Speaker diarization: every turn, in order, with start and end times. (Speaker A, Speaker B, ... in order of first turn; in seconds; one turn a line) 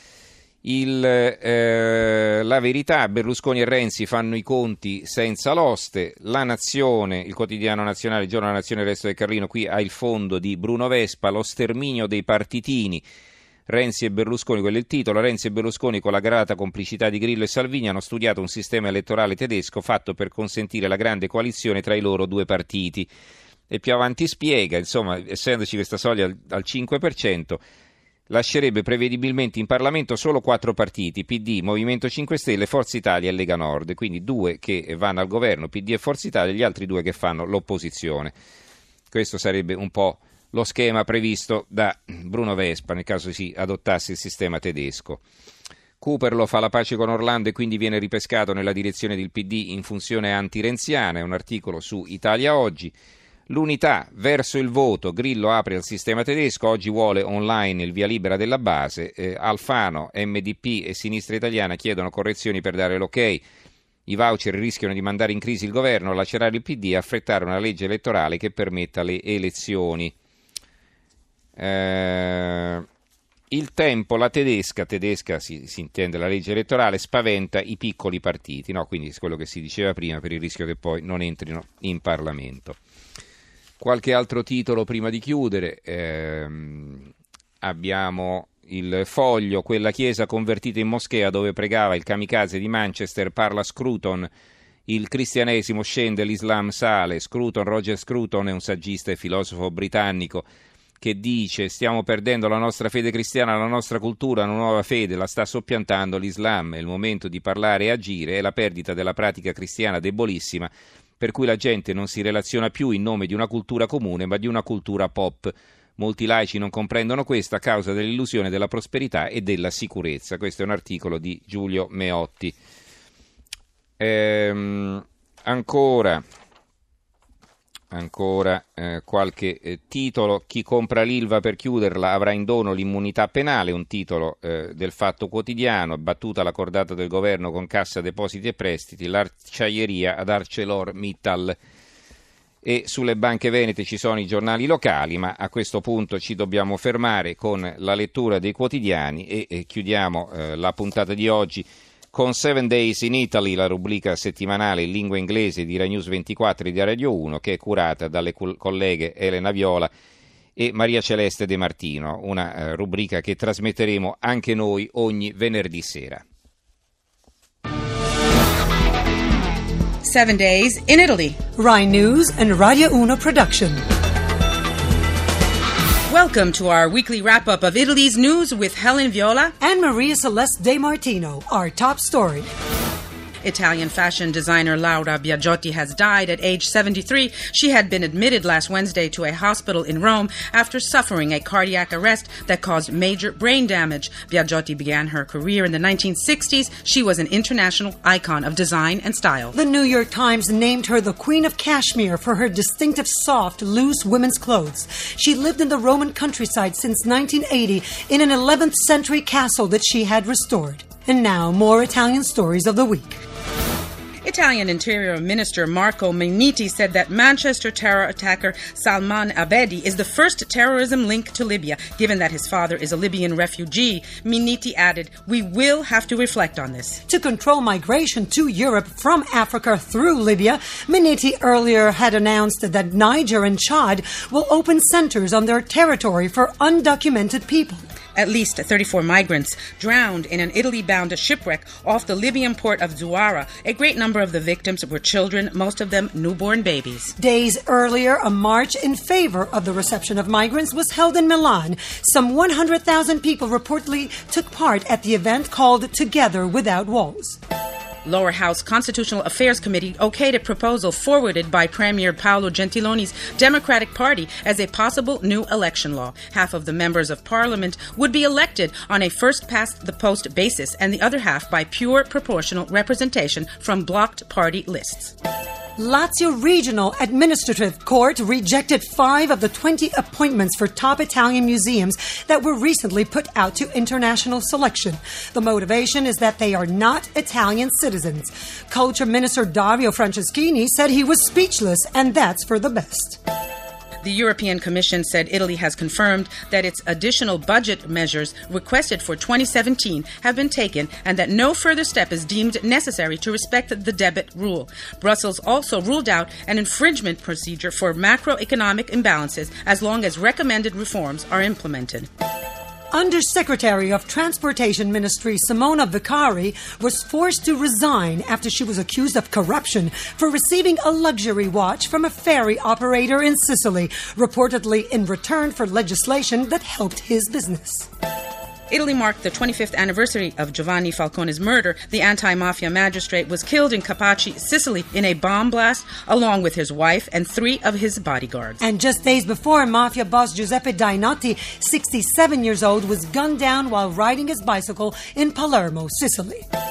Speaker A: 0.6-13.0
Speaker A: 13.7-23.1
Speaker A: 23.7-27.6
Speaker A: 28.3-38.3
Speaker A: 39.1-45.2
Speaker A: 46.0-52.9
Speaker A: 53.5-63.4
Speaker A: 64.1-70.1
Speaker A: 71.6-72.8
Speaker A: 73.5-82.8
Speaker A: 83.8-87.1
Speaker A: 87.6-94.3
Speaker A: 94.9-100.5
Speaker A: 101.0-122.5
Speaker A: 124.0-126.2
Speaker A: 127.9-141.6
Speaker A: 142.6-159.9
Speaker A: 160.6-166.2
Speaker B: 170.0-171.4
Speaker C: 171.6-173.8
Speaker B: 176.1-179.5
Speaker C: 179.6-182.5
Speaker B: 183.4-199.5
Speaker C: 199.5-213.2
Speaker B: 214.2-227.0
Speaker C: 227.1-237.8
Speaker B: 238.1-247.1
Speaker C: 247.2-257.4
Speaker B: 258.0-275.1
Speaker C: 275.8-293.2
Speaker B: 294.0-312.1
Speaker C: 312.9-327.9
Speaker B: 328.7-338.6
Speaker C: 338.6-346.4